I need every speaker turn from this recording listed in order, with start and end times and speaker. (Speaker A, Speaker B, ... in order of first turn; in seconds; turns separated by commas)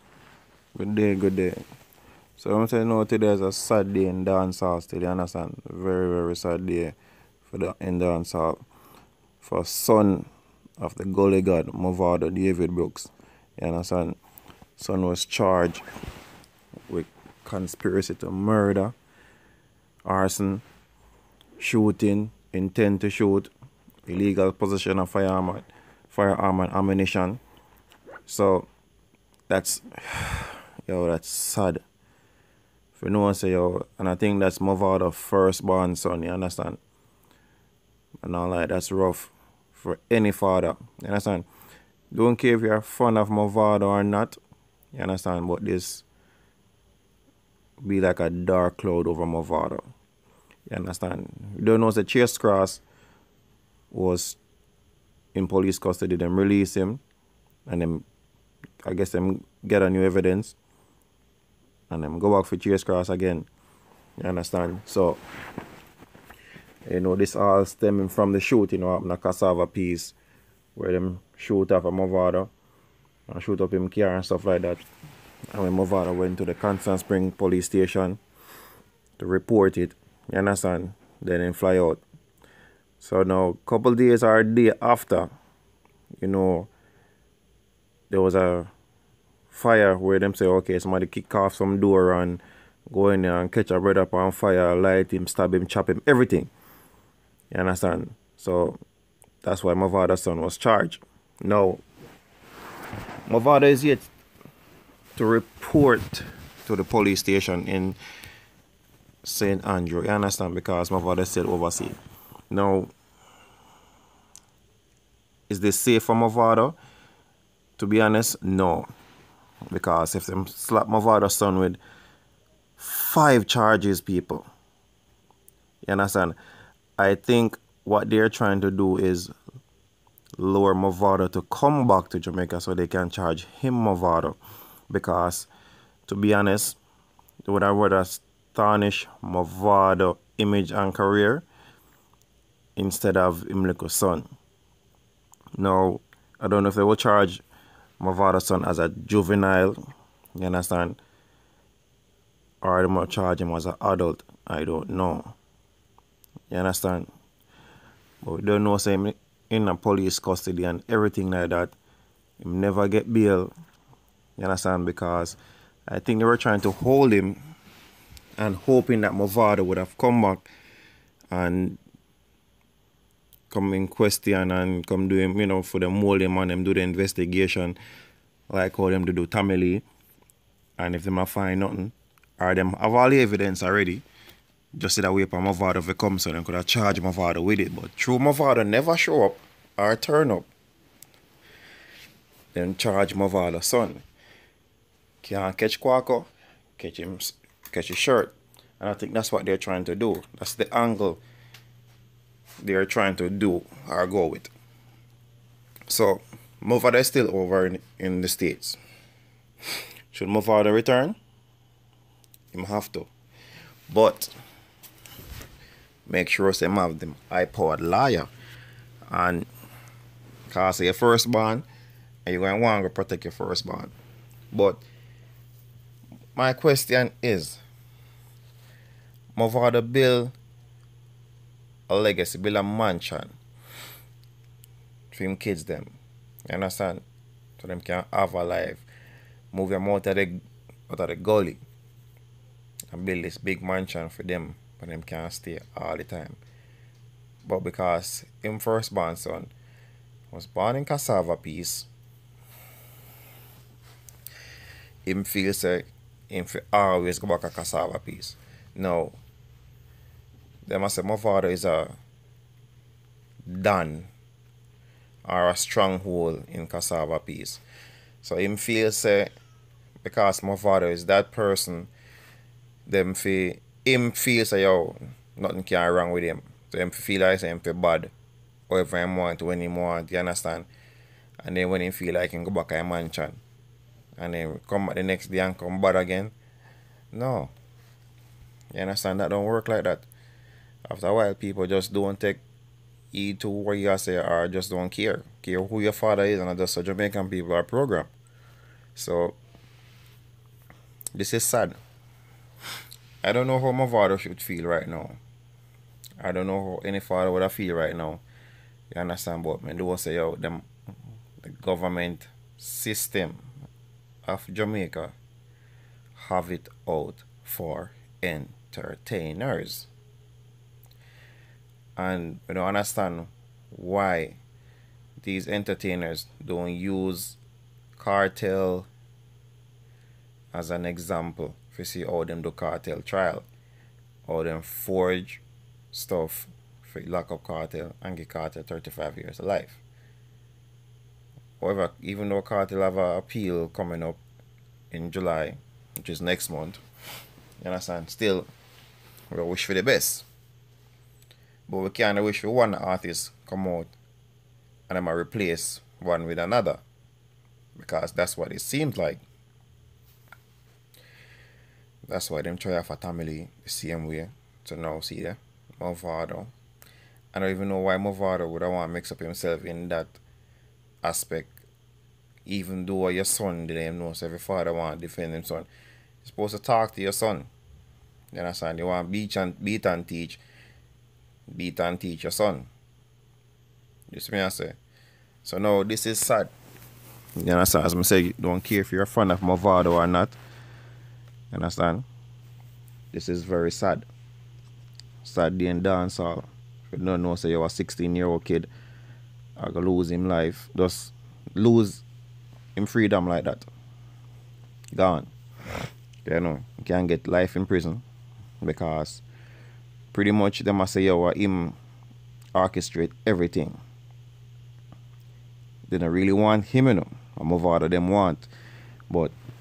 Speaker A: 0.8-1.6, Speaker A: 2.4-7.0, Speaker A: 7.5-8.6, Speaker A: 9.4-14.2, Speaker A: 14.8-15.8, Speaker A: 16.9-18.9, Speaker A: 20.1-20.6, Speaker A: 21.6-23.5, Speaker A: 24.1-27.4, Speaker A: 28.3-28.7, Speaker A: 29.5-31.8, Speaker A: 33.0-36.8, Speaker A: 38.2-41.5, Speaker A: 42.1-44.4, Speaker A: 44.9-46.0, Speaker A: 47.8-49.8, Speaker A: 50.7-52.8, Speaker A: 53.9-54.4, Speaker A: 55.4-57.0, Speaker A: 57.7-58.0, Speaker A: 58.8-60.6, Speaker A: 61.9-63.5, Speaker A: 64.2-65.2, Speaker A: 66.9-70.2, Speaker A: 70.8-72.5, Speaker A: 73.3-74.8, Speaker A: 75.5-78.2, Speaker A: 79.2-82.0, Speaker A: 83.0-85.3, Speaker A: 86.2-86.7, Speaker A: 88.1-88.7, Speaker A: 89.5-96.5, Speaker A: 97.5-98.8, Speaker A: 99.4-101.8, Speaker A: 103.3-104.1, Speaker A: 105.2-108.0, Speaker A: 109.2-112.0, Speaker A: 112.5-112.9, Speaker A: 115.5-116.8, Speaker A: 117.8-118.9, Speaker A: 119.7-121.8, Speaker A: 122.8-124.5, Speaker A: 125.8-126.4, Speaker A: 127.0-129.3, Speaker A: 130.4-134.4, Speaker A: 134.9-135.5, Speaker A: 136.1-136.8, Speaker A: 137.4-141.4, Speaker A: 142.8-144.3, Speaker A: 145.6-147.4, Speaker A: 148.0-149.8, Speaker A: 150.4-151.0, Speaker A: 152.6-155.3, Speaker A: 156.5-157.1, Speaker A: 158.2-161.8, Speaker A: 162.4-163.5, Speaker A: 164.4-167.4, Speaker A: 168.4-170.5, Speaker A: 171.3-171.8, Speaker A: 173.5-177.8, Speaker A: 178.5-179.8, Speaker A: 180.8-184.1, Speaker A: 184.7-190.5, Speaker A: 192.5-194.0, Speaker A: 195.2-201.2, Speaker A: 202.6-204.5, Speaker A: 205.9-208.8, Speaker A: 210.1-211.2, Speaker A: 212.5-213.1, Speaker A: 213.9-214.3, Speaker A: 216.1-218.3, Speaker A: 219.1-219.5, Speaker A: 220.5-221.7, Speaker A: 222.3-223.9, Speaker A: 224.5-224.8, Speaker A: 226.4-227.6, Speaker A: 229.3-230.3, Speaker A: 231.9-233.4, Speaker A: 235.1-235.9, Speaker A: 236.5-237.0, Speaker A: 237.6-238.8, Speaker A: 239.5-241.6, Speaker A: 242.9-246.4, Speaker A: 247.4-249.5, Speaker A: 250.3-251.9, Speaker A: 255.1-259.2, Speaker A: 260.6-261.9, Speaker A: 263.5-264.1, Speaker A: 265.2-267.6, Speaker A: 268.2-269.3, Speaker A: 270.1-271.9, Speaker A: 272.9-278.1, Speaker A: 278.7-280.7, Speaker A: 281.4-283.4, Speaker A: 284.2-286.3, Speaker A: 287.1-287.5, Speaker A: 288.7-290.1, Speaker A: 290.9-292.4, Speaker A: 293.1-298.1, Speaker A: 299.0-299.4, Speaker A: 301.1-301.8, Speaker A: 303.2-305.2, Speaker A: 306.2-308.2, Speaker A: 308.9-310.6, Speaker A: 311.4-313.5, Speaker A: 314.2-315.1, Speaker A: 316.1-319.9, Speaker A: 322.0-324.4, Speaker A: 325.2-327.4, Speaker A: 328.0-328.9, Speaker A: 330.5-333.5, Speaker A: 334.3-339.8, Speaker A: 341.6-344.2, Speaker A: 344.9-346.8, Speaker A: 347.6-348.5, Speaker A: 349.3-350.2, Speaker A: 351.7-353.9, Speaker A: 354.9-356.8, Speaker A: 357.8-359.2, Speaker A: 362.1-366.5, Speaker A: 367.3-370.2, Speaker A: 371.0-371.6, Speaker A: 372.5-375.7, Speaker A: 376.2-377.5, Speaker A: 378.3-380.4, Speaker A: 381.5-382.7, Speaker A: 384.1-384.8, Speaker A: 385.4-386.5, Speaker A: 387.4-390.4, Speaker A: 391.5-392.1, Speaker A: 393.1-394.1, Speaker A: 395.2-398.7, Speaker A: 399.6-402.0, Speaker A: 402.8-403.7, Speaker A: 404.9-405.3, Speaker A: 406.2-408.0, Speaker A: 408.6-409.2, Speaker A: 410.1-411.8, Speaker A: 412.6-413.8, Speaker A: 415.9-418.5, Speaker A: 419.1-419.3